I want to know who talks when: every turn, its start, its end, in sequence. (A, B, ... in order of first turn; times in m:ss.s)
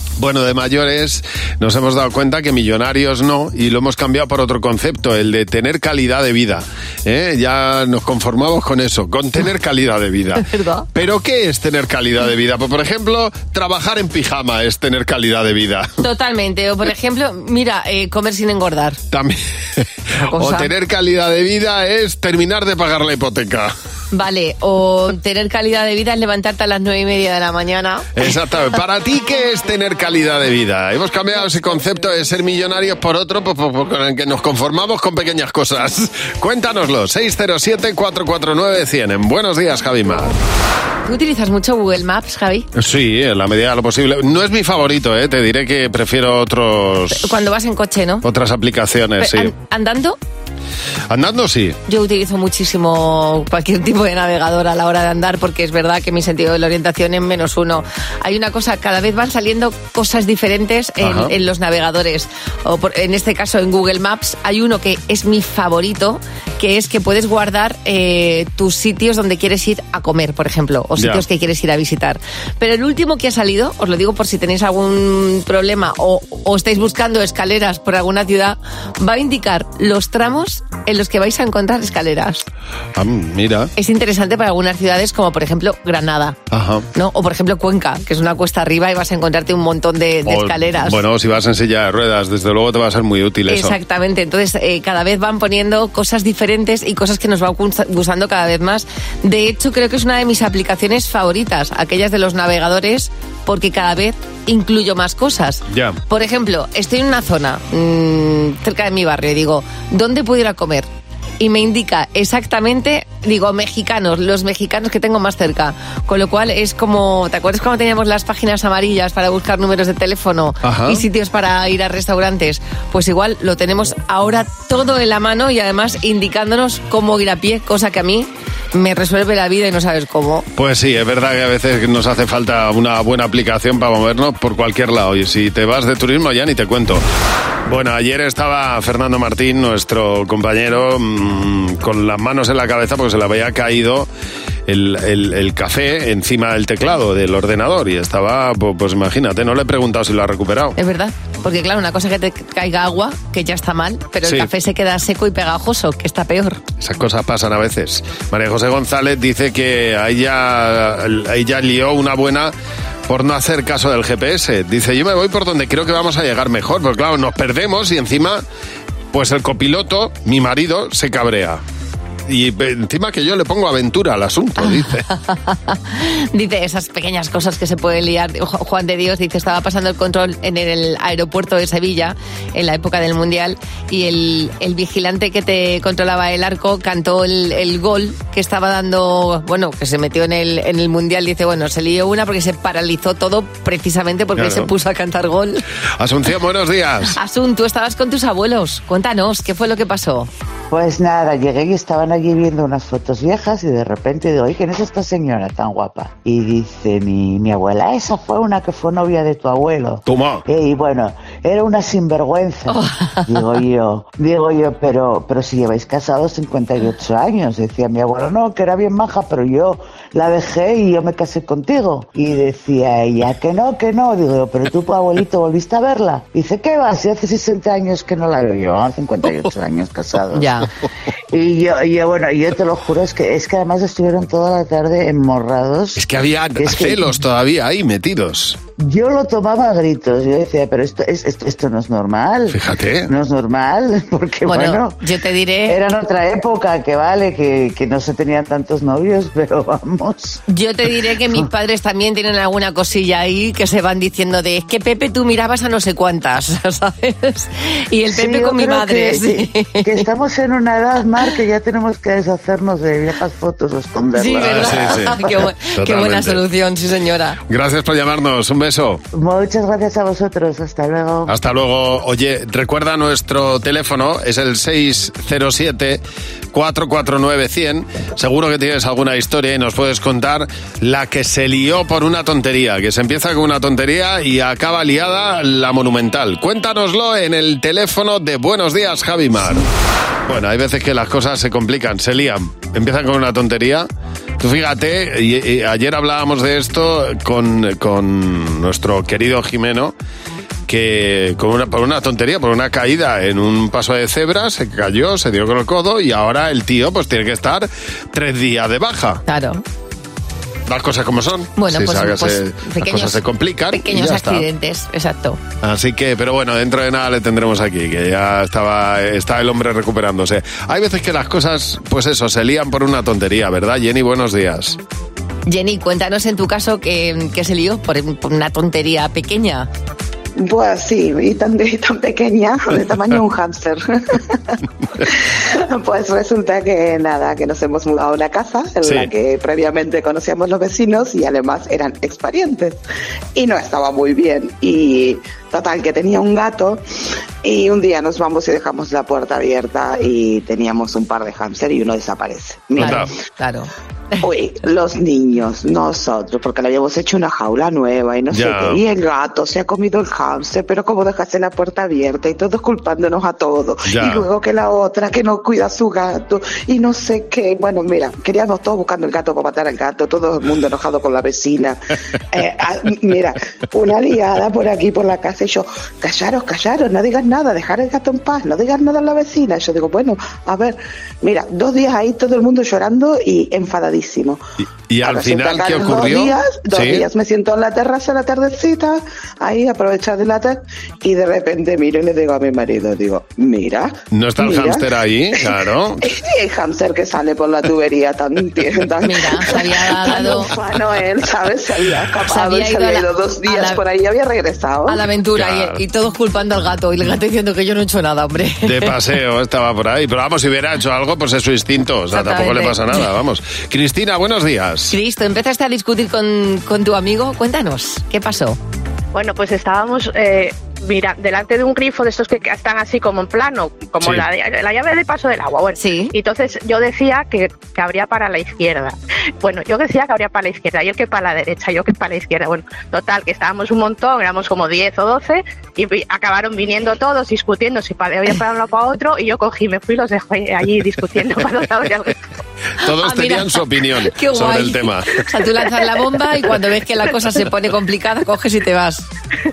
0:00.2-0:15.9 A
0:10.4-0:10.9 B
0:16.0-0:19.0 B
0:19.1-0:23.7 A
0:20.2-0:20.7 B
0:24.1-0:28.3 B
0:28.2-0:40.4 A
0:41.0-0:42.7 B
0:42.8-0:47.3 A
0:47.1-0:48.2 B
0:48.2-0:49.5 A
0:49.2-0:50.2 B
0:51.1-0:51.8 A
0:51.9-1:22.5 B
1:01.0-1:01.3 A
1:11.0-1:11.2 A
1:23.0-1:23.7 A
1:23.8-1:26.4 B
1:26.5-1:26.9 A
1:26.9-1:31.0 B
1:30.3-1:33.8 A
1:33.5-1:50.9 B
1:45.7-1:46.0 A
1:51.4-2:10.5 B
2:00.6-2:01.0 A
2:10.6-2:17.0 A
2:17.7-2:24.1 A
2:24.7-2:30.8 A
2:30.8-2:36.6 B
2:36.8-2:42.5 A
2:43.1-2:48.4 A
2:49.1-2:51.6 A
2:52.3-2:55.0 A
2:54.6-3:15.6 B
3:14.4-3:14.7 A
3:16.0-3:17.2 A
3:17.1-3:20.3 B
3:20.7-3:50.6 C
3:30.1-3:30.4 A
3:32.7-3:33.3 B
3:50.3-3:50.7 B
3:51.3-3:56.0 C
3:56.0-3:58.6 A
3:56.6-3:57.2 C
3:58.8-4:05.0 C
4:02.5-4:03.1 A
4:04.5-4:05.8 B
4:05.7-4:10.4 C
4:10.5-4:20.0 B
4:18.1-4:25.2 C
4:24.2-4:27.4 B
4:24.4-4:26.4 A
4:27.5-4:29.0 A
4:29.1-4:31.4 C
4:31.3-4:36.0 A
4:36.5-4:49.7 A
4:50.3-4:53.9 A
4:54.4-4:59.9 A
5:00.7-5:09.2 A
5:09.3-5:09.6 B
5:10.7-5:14.5 A
5:11.6-5:13.2 B
5:13.7-5:15.4 B
5:15.6-5:24.8 A
5:25.5-5:29.7 B
5:30.4-5:42.8 D
5:38.8-5:39.1 A
5:43.4-5:46.8 D
5:47.4-5:53.0 D
5:52.8-5:53.1 A
5:52.8-5:54.2 B
5:54.2-6:11.8 D
5:58.3-5:58.8 A
6:03.9-6:04.3 A
6:12.3-6:24.4 D
6:24.9-6:27.0 A
6:25.0-6:34.9 D
6:34.1-6:36.0 A
6:36.0-6:45.0 D
6:39.0-6:40.5 B
6:42.2-6:43.8 B
6:44.9-6:48.9 B
6:45.4-6:45.8 A
6:48.6-6:54.9 A
6:52.1-6:53.1 B
6:54.9-6:58.6 B
6:59.1-7:22.2 E
7:04.0-7:04.3 A
7:05.8-7:06.1 B
7:22.8-7:25.2 A
7:23.0-7:29.0 B